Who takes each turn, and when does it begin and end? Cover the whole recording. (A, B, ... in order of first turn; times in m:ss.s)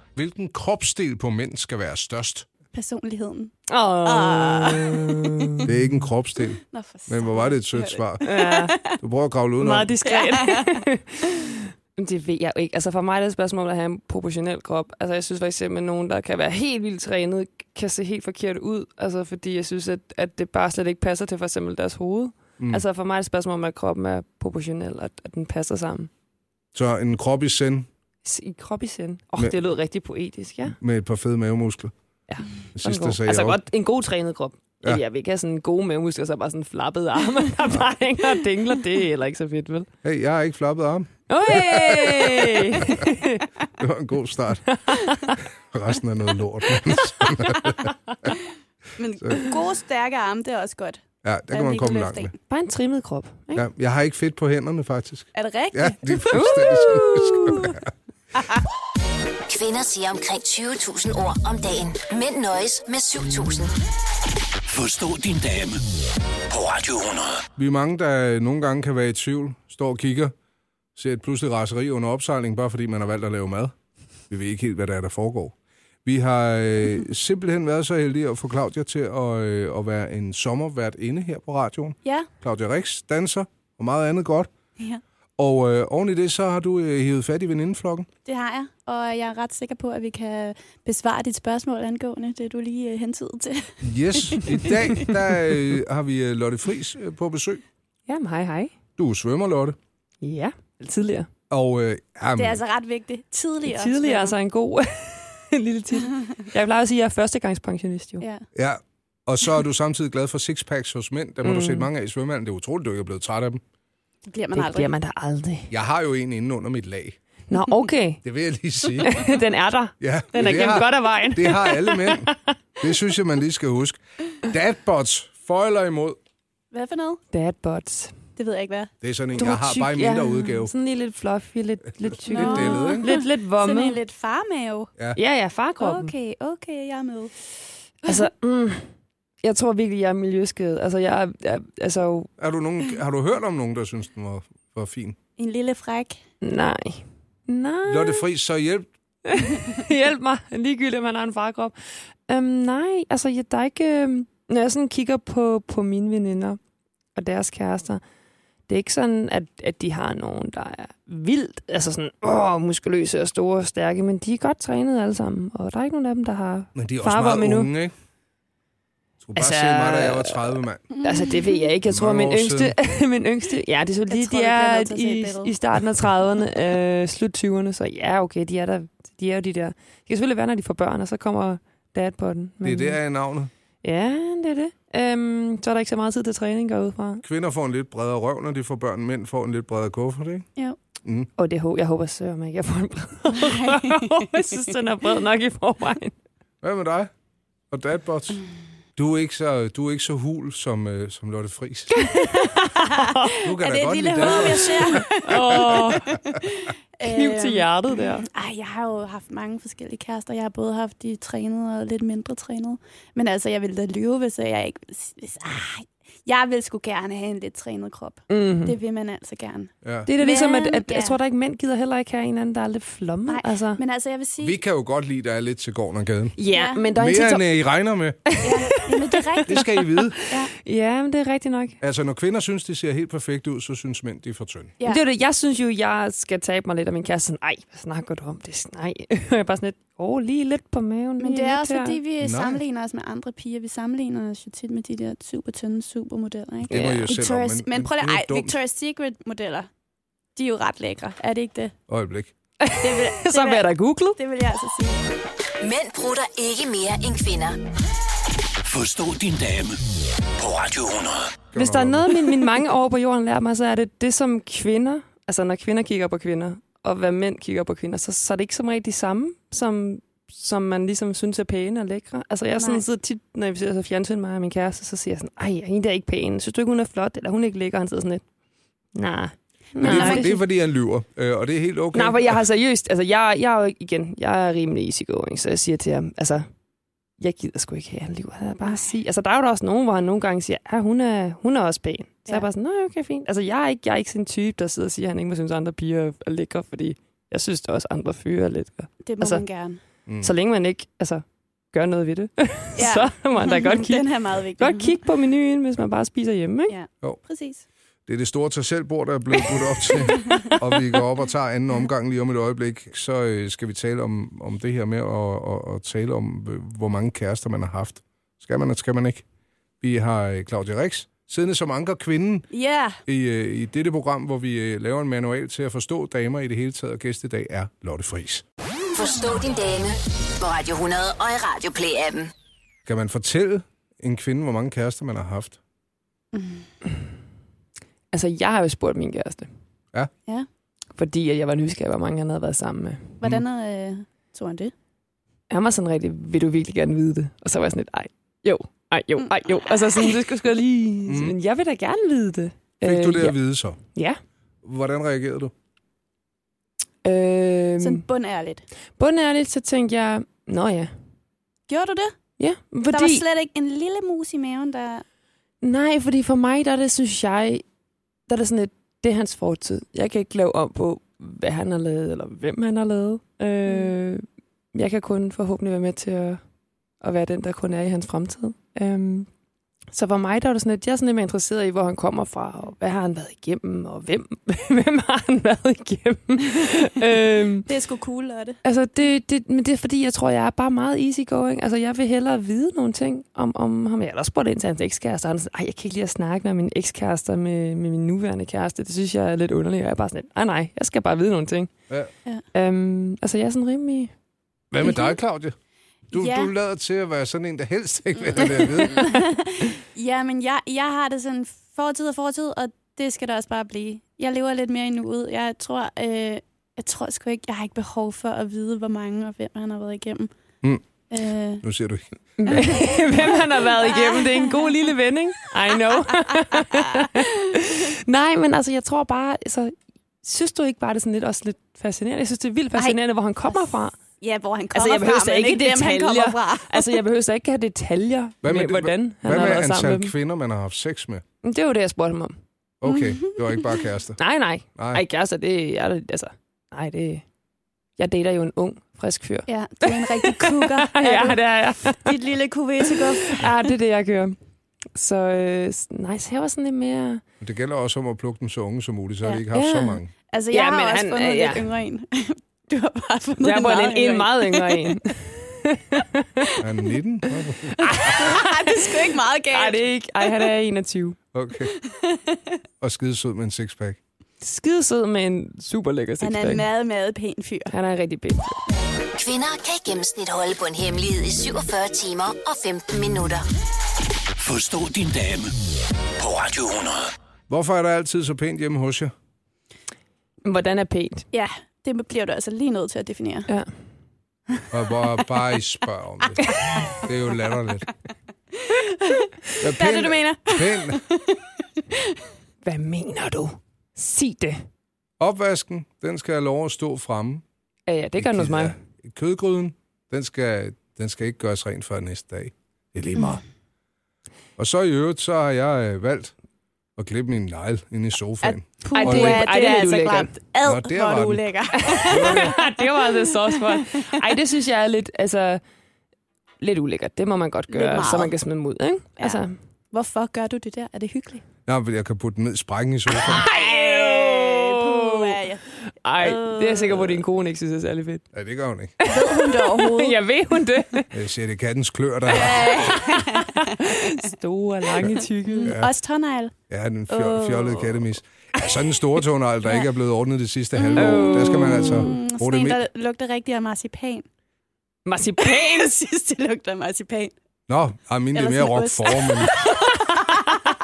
0:00.2-0:02.5 A
0:02.7-0:05.5 B
0:03.7-0:05.7 C
0:05.6-0:08.2 A
0:06.7-0:09.0 B
0:08.2-0:08.8 C
0:08.9-0:09.9 A
0:09.6-0:26.1 C
0:10.0-0:10.8 B
0:26.7-0:27.9 A
0:28.2-0:30.8 C
0:30.8-0:31.9 A
0:32.3-0:39.9 C
0:32.7-0:33.6 A
0:40.0-0:43.1 A
0:41.3-0:43.5 C
0:43.8-0:44.8 A
0:44.7-0:45.4 C
0:45.4-0:48.3 A
0:46.9-0:48.1 C
0:49.0-0:52.3 B
0:51.2-0:52.3 A
0:52.5-0:53.6 C
0:53.5-0:57.8 A
0:55.3-0:56.6 B
0:56.3-0:57.8 C
0:59.5-1:03.7 D
1:04.7-1:05.8 E
1:06.5-1:07.4 E
1:07.6-1:10.3 A
1:11.0-1:13.7 A
1:14.3-1:24.5 A
1:25.4-1:28.1 A
1:28.2-1:35.1 B
1:33.8-1:37.6 A
1:38.1-1:38.7 C
1:39.0-1:39.8 A
1:40.2-1:41.3 C
1:41.5-1:42.6 A
1:42.4-1:44.3 B
1:43.6-1:48.2 C
1:48.2-1:48.4 B
1:48.5-1:53.6 A
1:51.4-1:51.9 C
1:54.3-1:54.9 B
1:54.5-1:55.7 C
1:55.7-1:57.2 A
1:57.5-1:58.2 C
1:58.2-1:59.3 A
1:59.0-2:02.5 C
2:00.0-2:06.2 A
2:06.7-2:07.2 B
2:07.3-2:08.2 C
2:08.4-2:08.9 B
2:09.0-2:10.7 A
2:09.4-2:14.0 C
2:12.0-2:13.1 A
2:12.3-2:14.9 B
2:15.1-2:16.1 C
2:15.8-2:17.3 B
2:18.0-2:18.9 C
2:19.4-2:22.3 C
2:22.4-2:25.2 A
2:25.4-2:26.2 B
2:26.4-2:28.2 C
2:27.9-2:28.9 A
2:29.2-2:36.6 C
2:37.1-2:38.0 C
2:38.7-2:47.7 C
2:46.7-2:47.9 A
2:49.2-2:50.8 A
2:49.4-3:03.0 C
2:51.0-2:51.4 B
2:51.9-2:52.8 A
2:54.1-2:55.5 B
3:02.6-3:03.5 A
3:03.8-3:07.2 C
3:07.2-3:10.5 A
3:11.0-3:11.3 A
3:11.4-3:16.1 C
3:13.4-3:14.2 B
3:16.6-3:17.1 A
3:17.7-3:18.4 A
3:19.0-3:22.0 A
3:22.1-3:27.7 B
3:22.4-3:23.4 C
3:23.4-3:25.8 A
3:25.0-3:26.2 C
3:27.0-3:28.2 C
3:28.2-3:41.2 B
3:38.3-3:38.8 C
3:39.8-3:40.1 A
3:40.0-3:43.8 C
3:43.3-3:44.6 B
3:44.4-3:46.4 A
3:46.4-3:47.4 C
3:46.5-3:46.9 B
3:46.9-3:48.4 A
3:48.2-3:51.8 C
3:48.4-3:50.5 B
3:49.4-3:50.2 A
3:51.8-3:54.7 A
3:54.8-4:02.0 C
4:01.2-4:09.7 B
4:02.2-4:02.6 A
4:06.7-4:08.6 A
4:10.4-4:11.7 B
4:11.9-4:12.3 A
4:12.6-4:14.2 C
4:12.8-4:15.0 B
4:15.6-4:17.6 D
4:18.6-4:21.4 E
4:21.5-4:22.2 A
4:21.6-4:38.2 C
4:32.6-4:32.8 B
4:38.9-4:40.4 C
4:39.7-4:40.4 B
4:39.8-4:42.4 A
4:41.9-4:46.5 C
4:47.2-4:59.4 C
4:59.0-4:59.8 B
5:00.1-5:00.3 A
5:00.2-5:06.8 C
5:02.8-5:05.0 B
5:06.7-5:07.6 B
5:08.1-5:19.2 A
5:10.1-5:10.5 B
5:19.8-5:22.5 A
5:22.5-5:23.0 B
5:23.0-5:28.4 A
5:28.9-5:32.3 D
5:32.8-5:35.6 A
5:36.3-5:36.6 B
5:38.1-5:39.5 C
5:40.9-5:43.2 C
5:43.2-5:44.7 B
5:45.5-5:53.4 C
5:49.2-5:50.1 B
5:51.1-5:51.4 A
5:52.8-5:53.8 A
5:53.9-5:54.2 C
5:54.6-5:55.5 A
5:57.0-5:58.0 C
5:57.8-5:58.6 B
5:59.0-6:00.9 C
6:01.7-6:02.2 B
6:02.4-6:03.2 C
6:02.9-6:05.0 B
6:05.6-6:07.6 C
6:08.3-6:16.4 C
6:13.7-6:13.9 B
6:17.0-6:19.3 C
6:19.9-6:27.7 C
6:27.7-6:28.6 B
6:28.6-6:41.7 C
6:42.5-6:44.1 C
6:44.7-6:45.6 A
6:44.8-6:45.1 B
6:46.1-6:49.2 A
6:46.1-6:46.5 B
6:48.3-7:00.3 B
7:01.1-7:01.6 B
7:01.6-7:02.7 A
7:02.4-7:14.0 C
7:02.5-7:04.6 B
7:06.1-7:07.2 B
7:14.2-7:17.0 B
7:14.7-7:20.1 C
7:18.4-7:21.2 A
7:21.4-7:22.4 C
7:22.8-7:24.2 A
7:22.8-7:23.6 B
7:24.2-7:27.2 C
7:24.8-7:25.0 A
7:28.0-7:32.1 C
7:29.5-7:33.6 B
7:32.9-7:34.4 C
7:34.9-7:37.2 C
7:37.4-7:40.1 A
7:39.5-7:41.7 C
7:40.3-7:44.8 B
7:43.4-7:46.5 C
7:46.6-7:48.2 A
7:47.7-7:51.2 C
7:47.9-7:49.8 B
7:51.3-7:51.7 A
7:51.7-7:52.6 B
7:52.8-7:54.0 A
7:54.4-7:56.6 C
7:56.2-7:57.7 B
7:57.7-7:58.6 C
7:59.1-8:03.4 D
8:04.4-8:05.6 E
8:06.2-8:07.1 E
8:07.5-8:09.1 A
8:10.4-8:11.3 C
8:11.3-8:13.5 B
8:14.7-8:17.9 A
8:18.6-8:21.4 B
8:19.6-8:21.0 A
8:22.6-8:24.7 C
8:25.2-8:27.4 A
8:27.9-8:28.8 C
8:28.2-8:33.4 A
8:34.6-8:36.3 A
8:37.0-8:39.4 A
8:38.4-8:44.1 B
8:38.9-8:40.3 C
8:40.6-8:42.6 A
8:41.8-8:45.6 C
8:46.6-8:49.6 C
8:47.7-8:48.3 B
8:49.9-8:51.4 B
8:51.7-8:53.4 A
8:53.1-8:58.2 C
8:53.2-8:55.6 B
8:56.2-8:57.2 B
8:58.3-8:59.0 A
8:59.0-9:01.1 C
8:59.0-9:00.2 B
9:01.1-9:03.1 A
9:02.3-9:04.2 B
9:02.7-9:05.8 C
9:05.0-9:06.5 B
9:05.6-9:05.9 A
9:06.7-9:12.8 A
9:07.1-9:08.0 B
9:10.8-9:14.2 B
9:10.9-9:12.2 C
9:15.0-9:15.9 C
9:15.4-9:17.3 B
9:17.7-9:19.6 A
9:18.3-9:20.5 B